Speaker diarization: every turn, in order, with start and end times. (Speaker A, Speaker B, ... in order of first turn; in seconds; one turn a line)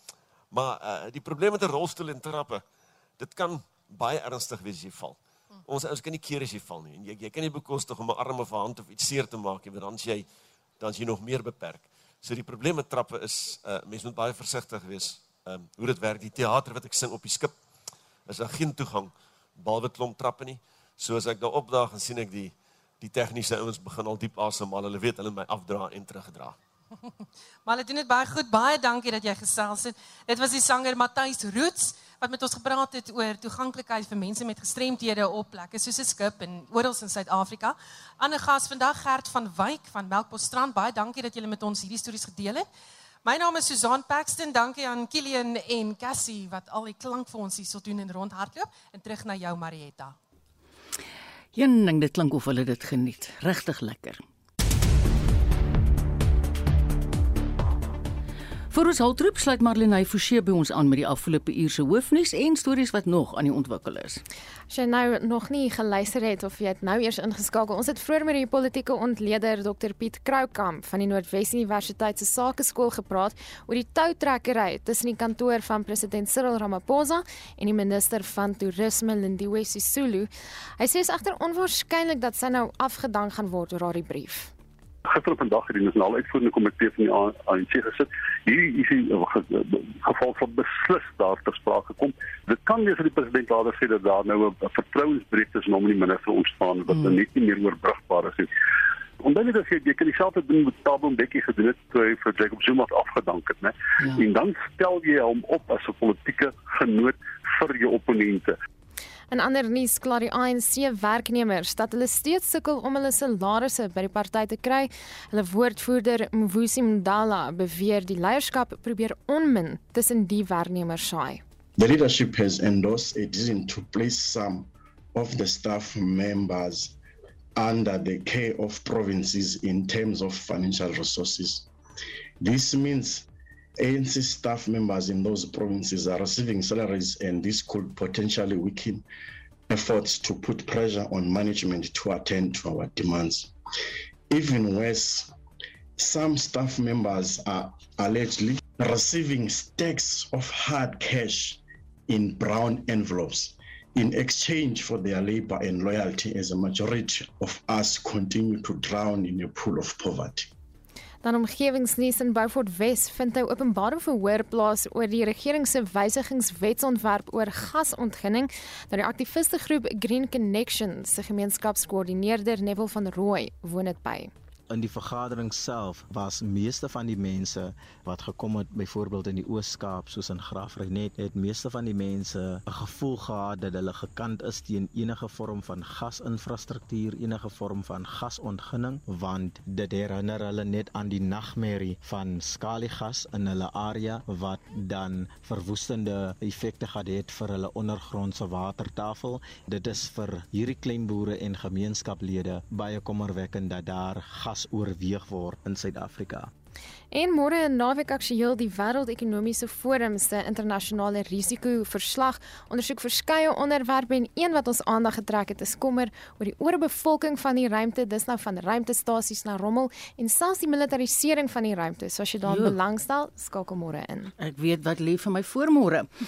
Speaker A: 0.5-2.6
Speaker A: 3.2-10.3
Speaker A: 10.8-17.6
Speaker A: 18.3-26.6
Speaker B: 27.6-42.6
Speaker B: 43.2-50.1
Speaker C: 51.5-54.2
Speaker C: 58.7-64.2
Speaker D: 64.7-84.5
Speaker E: 85.1-98.5
Speaker C: 96.9-97.2
Speaker E: 99.2-108.5
Speaker C: 104.0-104.2
Speaker D: 109.3-121.4
Speaker F: 121.8-127.0
Speaker F: 127.6-131.7
Speaker F: 132.4-133.3
Speaker F: 133.8-139.0
Speaker F: 139.7-143.5
Speaker F: 144.3-145.3
Speaker F: 146.0-160.5
Speaker D: 161.2-174.3
Speaker G: 174.7-206.5
Speaker D: 207.1-224.3
Speaker C: 222.4-222.8
Speaker C: 224.4-226.1